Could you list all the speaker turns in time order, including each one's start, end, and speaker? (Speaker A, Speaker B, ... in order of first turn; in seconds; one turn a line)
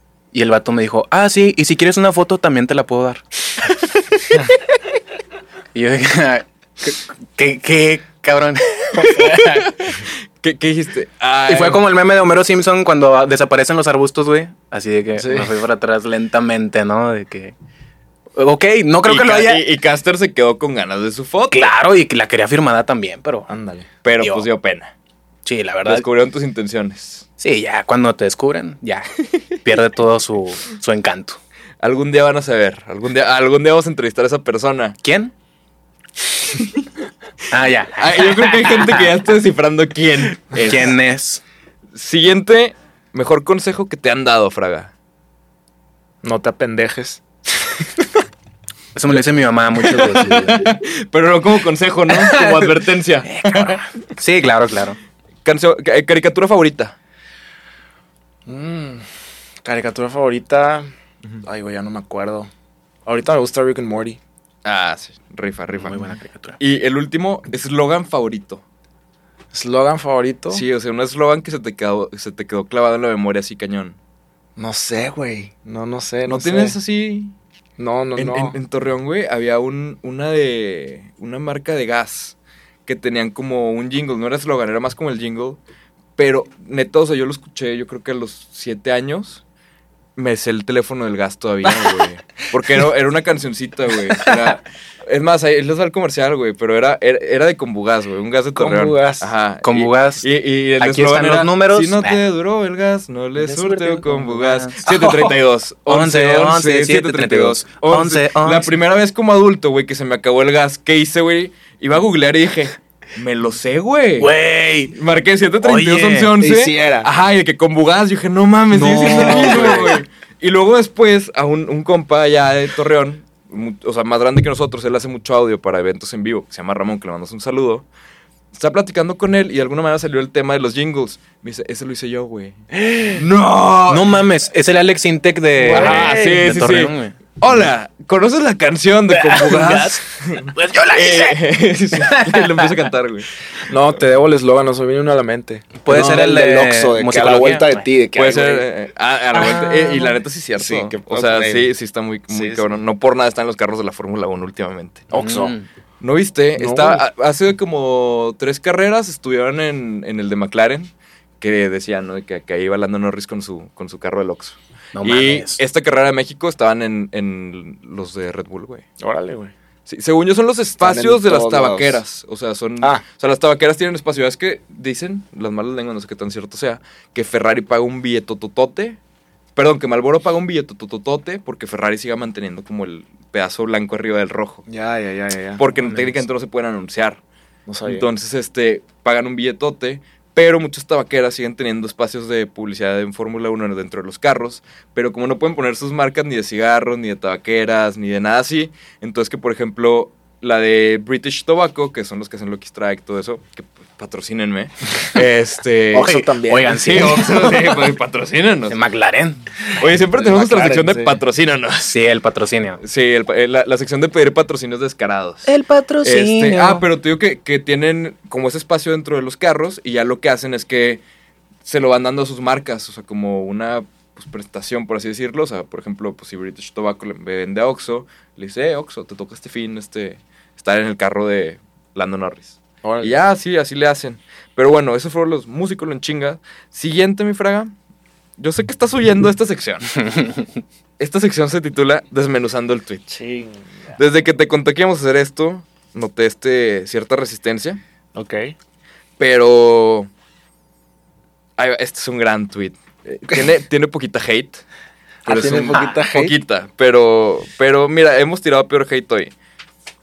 Speaker A: 0.3-3.8
Speaker A: 5.7-9.7
Speaker B: 9.0-11.8
Speaker A: 11.5-17.5
Speaker C: 15.2-15.6
Speaker A: 18.4-19.6
Speaker B: 19.1-21.7
Speaker A: 21.5-23.5
Speaker C: 23.5-23.9
Speaker B: 24.0-24.9
Speaker A: 24.2-24.5
Speaker A: 25.4-26.1
Speaker B: 25.8-27.2
Speaker A: 27.4-31.4
Speaker B: 31.8-35.0
Speaker A: 35.0-35.3
Speaker B: 36.5-36.9
Speaker A: 37.5-39.1
Speaker B: 38.0-41.0
Speaker A: 40.5-41.4
Speaker B: 42.0-44.9
Speaker C: 46.2-48.0
Speaker A: 48.9-50.8
Speaker B: 49.8-53.9
Speaker A: 52.1-55.0
Speaker B: 55.5-57.0
Speaker C: 58.5-59.0
Speaker C: 59.6-60.9
Speaker C: 61.4-62.5
Speaker C: 63.1-64.2
Speaker B: 64.7-68.6
Speaker A: 65.7-66.6
Speaker C: 69.5-70.6
Speaker B: 70.5-74.0
Speaker C: 74.6-76.8
Speaker B: 76.3-77.3
Speaker C: 77.8-78.6
Speaker B: 78.2-85.6
Speaker B: 86.2-89.4
Speaker B: 90.2-114.3
Speaker C: 98.6-99.3
Speaker A: 99.6-100.3
Speaker A: 100.8-102.2
Speaker A: 103.4-108.7
Speaker A: 114.2-115.0
Speaker B: 114.9-127.8
Speaker A: 115.6-116.3
Speaker C: 116.4-117.1
Speaker A: 118.7-120.0
Speaker C: 118.9-119.9
Speaker B: 128.5-132.6
Speaker A: 132.7-133.2
Speaker B: 133.1-134.2
Speaker A: 133.9-137.7
Speaker C: 135.6-136.5
Speaker B: 135.7-143.3
Speaker A: 139.1-140.0
Speaker A: 140.5-141.4
Speaker A: 141.9-142.7
Speaker C: 143.7-148.7
Speaker A: 145.8-147.8
Speaker B: 148.2-155.1
Speaker A: 149.3-150.2
Speaker C: 150.6-151.7
Speaker C: 152.3-152.8
Speaker C: 155.1-155.6
Speaker A: 155.1-155.7
Speaker B: 156.0-168.8
Speaker C: 156.6-157.1
Speaker A: 164.9-165.6
Speaker C: 169.0-169.5
Speaker B: 169.9-179.0
Speaker C: 170.8-172.0
Speaker B: 179.6-184.6
Speaker C: 184.7-186.2
Speaker B: 185.6-187.2
Speaker C: 187.7-188.1
Speaker B: 187.8-208.8
Speaker C: 205.9-207.2
Speaker A: 205.9-207.8
Speaker A: 208.7-209.4
Speaker B: 209.8-212.0
Speaker C: 209.8-211.2
Speaker A: 211.9-212.8
Speaker B: 212.8-215.5
Speaker A: 215.5-216.9
Speaker B: 216.0-221.0
Speaker B: 221.7-237.7
Speaker C: 232.8-233.2
Speaker B: 238.4-240.0
Speaker A: 240.2-240.4
Speaker B: 241.0-243.1
Speaker C: 243.1-244.0
Speaker B: 244.0-247.8
Speaker C: 248.2-248.6
Speaker B: 249.2-250.1
Speaker B: 251.6-254.6
Speaker C: 255.2-256.4
Speaker B: 255.3-259.3